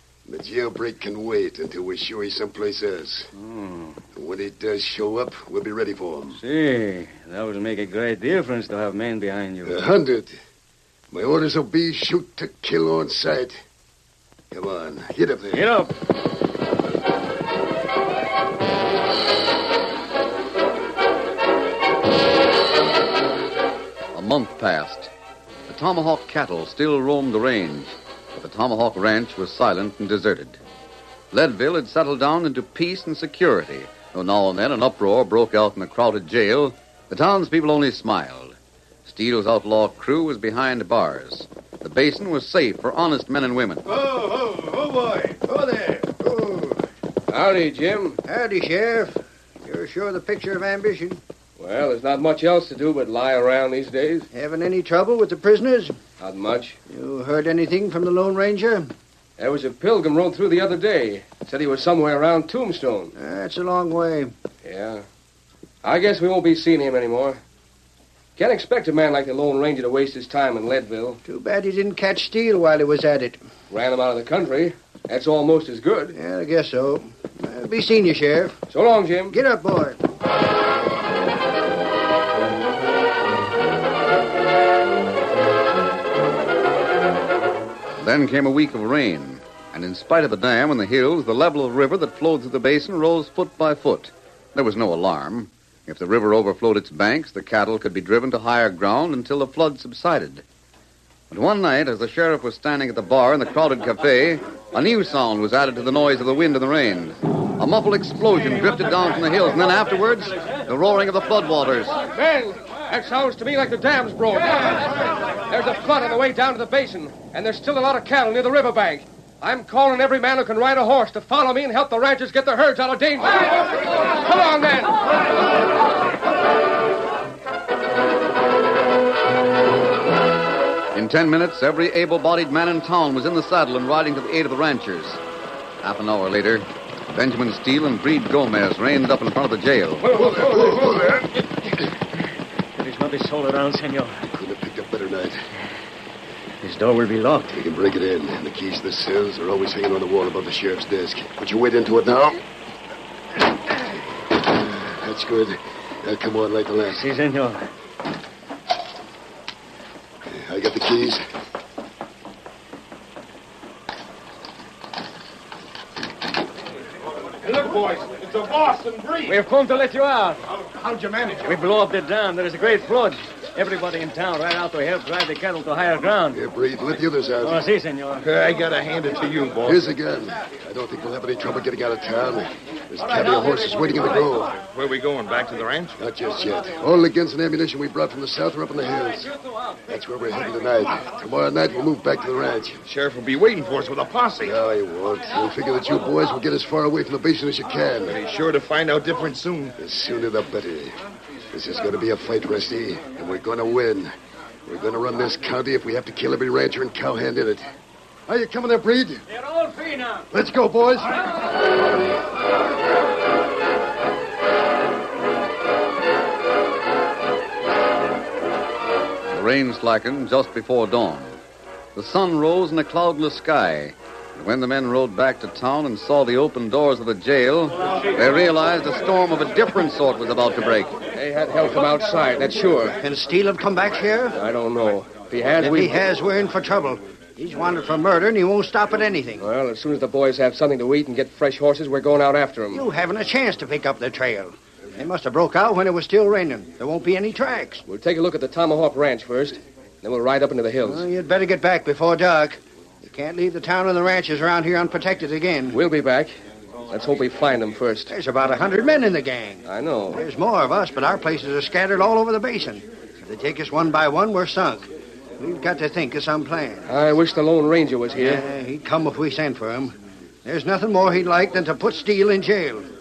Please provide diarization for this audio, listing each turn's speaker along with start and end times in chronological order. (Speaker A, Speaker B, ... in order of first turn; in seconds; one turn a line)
Speaker A: 0.3-3.3
Speaker B: 3.4-4.0
Speaker A: 4.1-6.4
Speaker B: 6.4-9.8
Speaker A: 9.6-10.3
Speaker A: 11.1-13.6
Speaker A: 14.5-15.7
Speaker B: 15.5-15.9
Speaker C: 24.1-25.1
Speaker C: 25.7-30.6
Speaker C: 31.3-43.9
Speaker D: 43.9-46.8
Speaker E: 47.3-48.2
Speaker D: 48.3-51.2
Speaker E: 51.6-54.3
Speaker D: 54.3-56.0
Speaker E: 56.2-56.8
Speaker D: 56.9-58.9
Speaker E: 59.4-63.1
Speaker D: 63.1-64.3
Speaker E: 64.6-65.0
Speaker E: 65.8-67.4
Speaker E: 68.4-71.2
Speaker D: 71.2-73.4
Speaker E: 73.7-76.2
Speaker D: 76.1-78.6
Speaker E: 78.7-79.3
Speaker D: 79.3-80.0
Speaker C: 88.0-100.4
Speaker C: 101.3-112.0
Speaker E: 112.1-125.3
Speaker C: 130.9-135.2
Speaker C: 135.8-140.1
Speaker A: 140.1-141.3
Speaker B: 140.5-140.8
Speaker B: 142.7-144.2
Speaker A: 144.3-145.4
Speaker B: 146.6-147.6
Speaker A: 147.5-152.4
Speaker A: 154.3-157.1
Speaker B: 156.9-157.6
Speaker A: 160.3-161.2
Speaker F: 167.4-169.4
Speaker B: 169.3-170.4
Speaker F: 170.6-171.6
Speaker B: 171.4-176.4
Speaker A: 176.3-177.6
Speaker B: 177.4-178.2
Speaker F: 178.2-179.9
Speaker A: 179.7-184.6
Speaker F: 184.6-186.0
Speaker A: 186.0-189.3
Speaker A: 189.9-192.8
Speaker F: 192.8-194.6
Speaker A: 194.4-198.2
Speaker F: 198.1-199.8
Speaker A: 199.8-200.9
Speaker A: 201.5-204.1
Speaker A: 204.7-207.7
Speaker A: 208.3-209.2
Speaker B: 209.6-210.2
Speaker A: 210.3-211.2
Speaker C: 219.3-221.4
Speaker C: 221.9-230.9
Speaker E: 231.1-233.0
Speaker D: 233.0-234.4
Speaker E: 234.3-235.9
Speaker D: 235.6-239.4
Speaker E: 239.4-242.8
Speaker D: 242.7-247.8
Speaker E: 247.8-251.0
Speaker D: 250.8-255.8
Speaker E: 255.7-256.3
Speaker E: 256.9-258.1
Speaker D: 258.1-266.9
Speaker E: 259.6-260.2
Speaker E: 266.9-268.4
Speaker D: 268.2-272.9